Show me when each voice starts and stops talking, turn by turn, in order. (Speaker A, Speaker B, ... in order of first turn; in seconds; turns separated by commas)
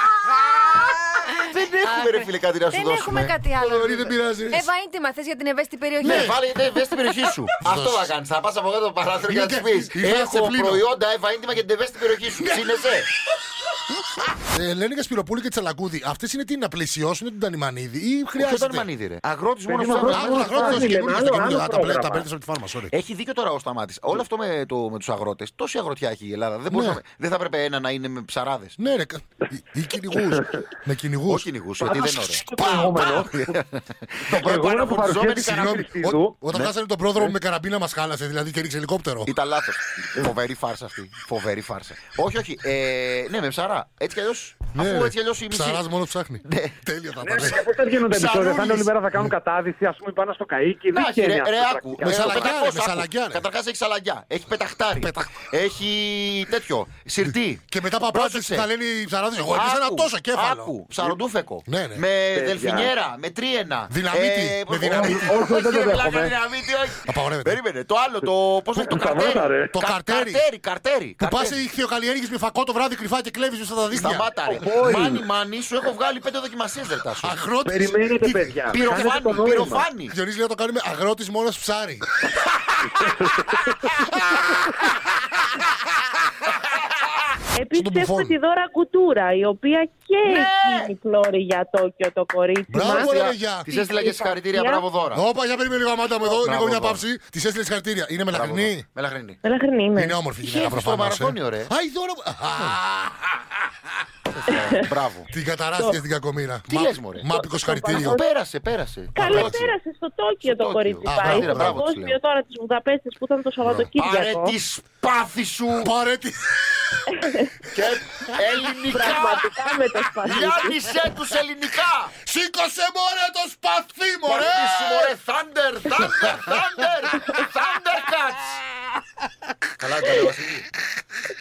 Speaker A: 1.5-3.3, Speaker B: 1.9-6.6, Speaker C: 3.6-4.7, Speaker A: 6.0-13.1, Speaker C: 6.0-6.4, Speaker C: 7.6-8.1, Speaker C: 9.2-10.8, Speaker C: 12.3-12.7, Speaker C: 14.5-18.8, Speaker A: 18.4-21.0, Speaker D: 19.6-22.2, Speaker C: 19.9-22.9, Speaker A: 22.9-28.8, Speaker C: 26.7-27.0, Speaker C: 28.8-31.5, Speaker D: 30.3-30.6, Speaker A: 31.3-36.7, Speaker D: 31.8-33.3, Speaker D: 34.3-36.4, Speaker C: 35.5-39.3, Speaker A: 39.2-45.9, Speaker C: 44.7-47.6, Speaker A: 46.5-46.8, Speaker D: 47.2-52.6, Speaker A: 48.1-48.9, Speaker A: 50.9-58.7, Speaker C: 52.0-53.4, Speaker C: 54.9-55.3, Speaker C: 57.2-60.7, Speaker A: 59.5-71.6, Speaker C: 61.6-62.0, Speaker D: 62.3-62.9, Speaker C: 63.9-65.2, Speaker D: 64.8-66.3, Speaker C: 67.0-67.5, Speaker D: 68.7-69.8, Speaker C: 69.7-70.5, Speaker C: 71.2-74.9, Speaker A: 73.9-77.5, Speaker D: 74.0-75.2, Speaker C: 77.2-79.1, Speaker D: 77.6-79.9, Speaker A: 78.7-80.1, Speaker C: 80.1-82.0, Speaker D: 83.0-83.6, Speaker E: 87.5-94.8, Speaker C: 87.7-88.3, Speaker A: 90.2-90.9, Speaker C: 92.7-93.7, Speaker A: 92.9-95.2, Speaker C: 95.1-98.9, Speaker A: 96.2-97.0, Speaker A: 98.3-99.4, Speaker E: 99.4-100.2, Speaker C: 100.0-103.3, Speaker A: 100.4-101.7, Speaker A: 104.4-105.3, Speaker C: 105.3-108.2, Speaker A: 106.7-107.3, Speaker E: 107.3-108.2, Speaker A: 108.0-109.7, Speaker C: 109.1-109.6, Speaker E: 109.2-114.5, Speaker A: 110.4-112.2, Speaker C: 111.0-111.8, Speaker A: 113.6-115.9, Speaker C: 115.8-116.8, Speaker A: 117.7-119.5, Speaker C: 118.2-118.9, Speaker E: 118.9-120.7, Speaker C: 120.2-120.7, Speaker A: 120.2-122.1, Speaker C: 122.2-125.1, Speaker A: 124.3-128.8, Speaker C: 126.0-127.4, Speaker A: 129.8-130.7